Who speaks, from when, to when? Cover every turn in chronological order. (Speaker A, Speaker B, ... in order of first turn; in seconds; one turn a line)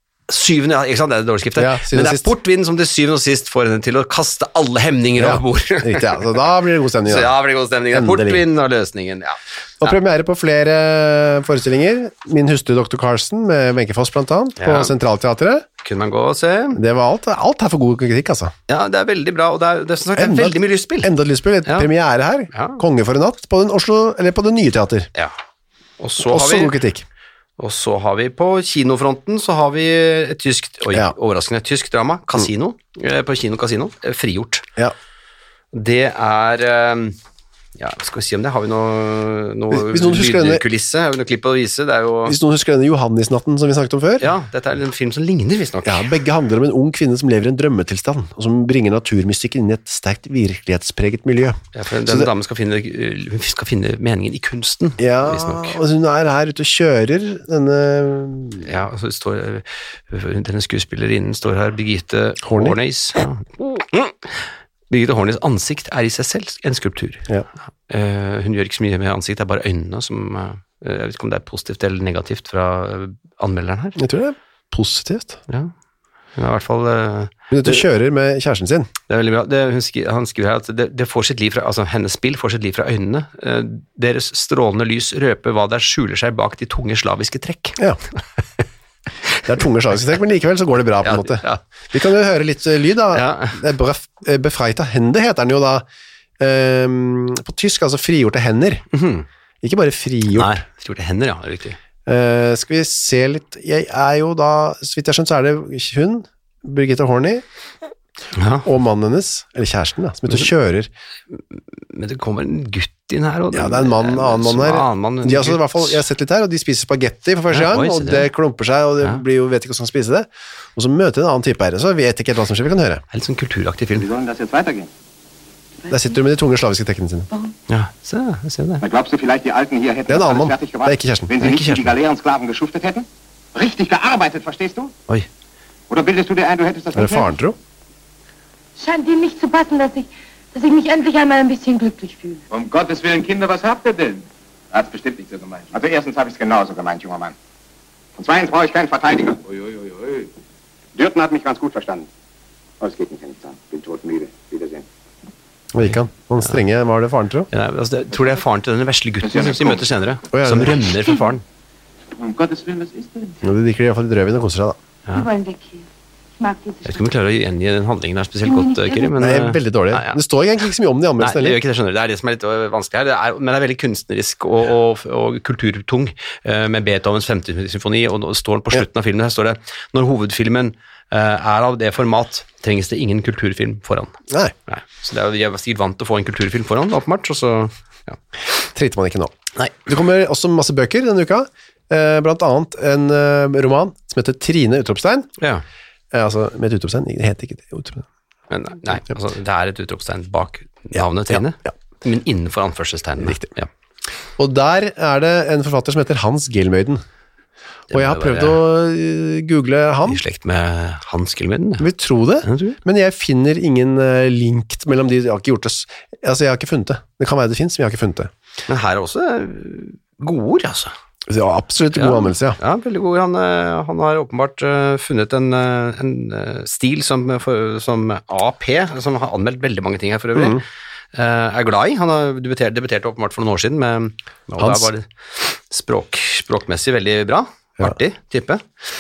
Speaker A: 0.3-6.4
Speaker B: 1.6-2.3
Speaker B: 5.2-7.3
Speaker A: 7.0-9.9
Speaker B: 7.9-8.4
Speaker B: 9.8-15.7
Speaker A: 14.6-14.9
Speaker A: 15.8-16.8
Speaker B: 16.8-18.5
Speaker A: 18.7-21.1
Speaker B: 20.2-25.1
Speaker A: 22.5-22.8
Speaker A: 26.0-26.8
Speaker B: 26.2-27.1
Speaker A: 27.6-34.7
Speaker A: 35.7-37.2
Speaker A: 37.8-42.4
Speaker B: 39.7-40.6
Speaker B: 42.3-44.3
Speaker A: 44.2-46.1
Speaker B: 45.9-52.3
Speaker A: 51.7-55.8
Speaker B: 55.0-58.7
Speaker A: 58.6-67.3
Speaker B: 62.4-62.8
Speaker A: 67.9-74.0
Speaker B: 74.0-75.4
Speaker A: 75.5-75.7
Speaker A: 76.4-77.9
Speaker B: 77.5-78.9
Speaker A: 79.1-87.8
Speaker B: 89.5-95.8
Speaker A: 91.0-91.6
Speaker A: 93.1-93.6
Speaker B: 96.4-98.9
Speaker A: 98.9-99.3
Speaker B: 99.6-100.6
Speaker A: 100.3-101.8
Speaker B: 102.1-107.5
Speaker A: 108.3-108.7
Speaker B: 108.7-110.9
Speaker A: 111.3-116.0
Speaker B: 113.5-123.0
Speaker A: 117.5-118.3
Speaker A: 123.1-124.1
Speaker C: 124.0-124.9
Speaker D: 125.8-126.2
Speaker B: 125.9-127.3
Speaker A: 127.7-128.8
Speaker C: 128.8-134.9
Speaker B: 130.1-131.6
Speaker A: 131.4-131.9
Speaker C: 135.9-137.3
Speaker B: 136.9-137.6
Speaker D: 138.8-142.4
Speaker C: 142.5-147.3
Speaker C: 148.2-150.3
Speaker C: 151.0-152.1
Speaker C: 152.8-154.9
Speaker B: 155.7-157.5
Speaker A: 157.5-161.4
Speaker C: 159.2-159.9
Speaker B: 160.3-160.8
Speaker C: 162.1-163.4
Speaker B: 163.4-164.8
Speaker D: 165.1-165.9
Speaker D: 166.4-167.1
Speaker A: 166.8-170.2
Speaker D: 168.4-169.1
Speaker B: 169.2-171.6
Speaker A: 171.2-184.2
Speaker A: 184.7-188.2
Speaker B: 188.7-189.3
Speaker A: 189.6-189.9
Speaker B: 189.9-195.3
Speaker A: 195.4-195.7
Speaker B: 196.1-198.1
Speaker A: 198.5-203.7
Speaker B: 201.0-201.4
Speaker B: 203.2-203.5
Speaker B: 204.4-207.0
Speaker A: 207.9-208.6
Speaker B: 207.9-210.2
Speaker A: 210.1-211.9
Speaker B: 211.8-218.3
Speaker A: 212.4-212.8
Speaker A: 218.7-220.9
Speaker B: 221.3-222.6
Speaker A: 221.9-238.6
Speaker B: 230.3-230.6
Speaker B: 234.6-234.9